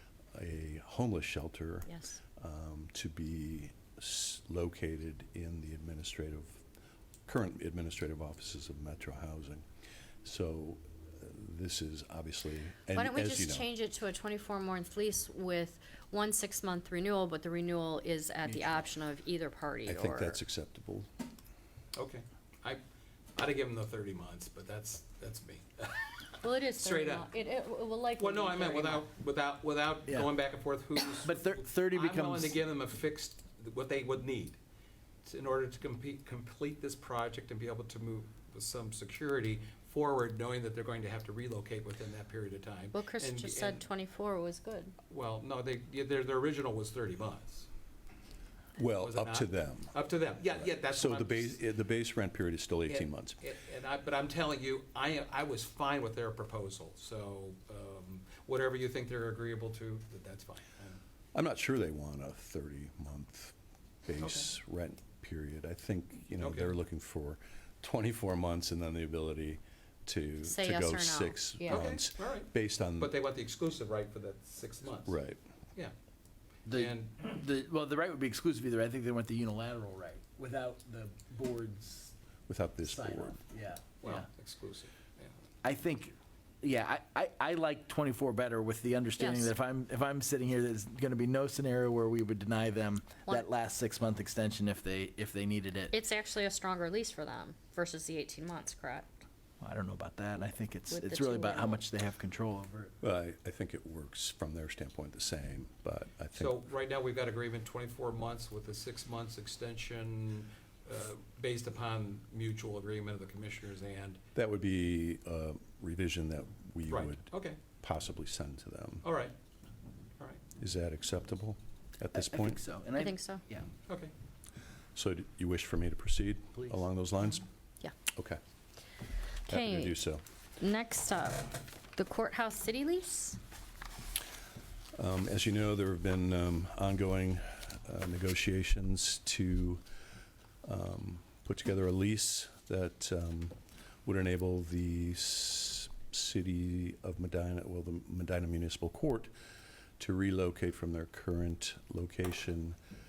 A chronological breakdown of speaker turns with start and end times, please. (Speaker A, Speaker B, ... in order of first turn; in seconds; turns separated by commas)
Speaker A: 0.3-6.6, Speaker B: 1.9-2.2, Speaker A: 7.3-9.7, Speaker A: 10.2-13.7, Speaker B: 12.9-20.4, Speaker A: 19.9-21.1, Speaker C: 21.9-22.8, Speaker C: 23.4-27.3, Speaker B: 26.4-29.1, Speaker C: 28.2-34.6, Speaker D: 31.2-32.6, Speaker C: 35.2-43.9, Speaker B: 42.9-45.0, Speaker C: 45.1-47.7, Speaker A: 48.8-53.4, Speaker C: 49.0-51.6, Speaker C: 52.9-61.0, Speaker A: 61.3-63.5, Speaker A: 64.1-73.1, Speaker C: 64.2-64.5, Speaker C: 66.4-66.7, Speaker B: 70.4-71.9, Speaker C: 71.7-75.2, Speaker A: 75.1-75.4, Speaker D: 76.7-82.1, Speaker C: 76.7-77.2, Speaker A: 82.5-83.4, Speaker D: 82.8-84.3, Speaker C: 84.0-85.3, Speaker D: 85.6-96.0, Speaker B: 89.2-89.5, Speaker B: 95.9-99.1, Speaker D: 99.6-102.9, Speaker B: 100.9-101.8, Speaker A: 103.0-106.6, Speaker C: 106.4-114.2, Speaker A: 114.3-119.0, Speaker C: 116.9-117.6, Speaker C: 119.0-119.3, Speaker A: 120.6-122.6, Speaker D: 122.1-123.7, Speaker B: 123.0-123.4, Speaker C: 123.9-124.1, Speaker A: 125.0-127.5, Speaker A: 128.1-128.4, Speaker B: 129.5-130.0, Speaker A: 129.5-130.2, Speaker B: 130.6-133.4, Speaker A: 135.0-139.8, Speaker A: 140.7-149.3, Speaker A: 150.0-152.8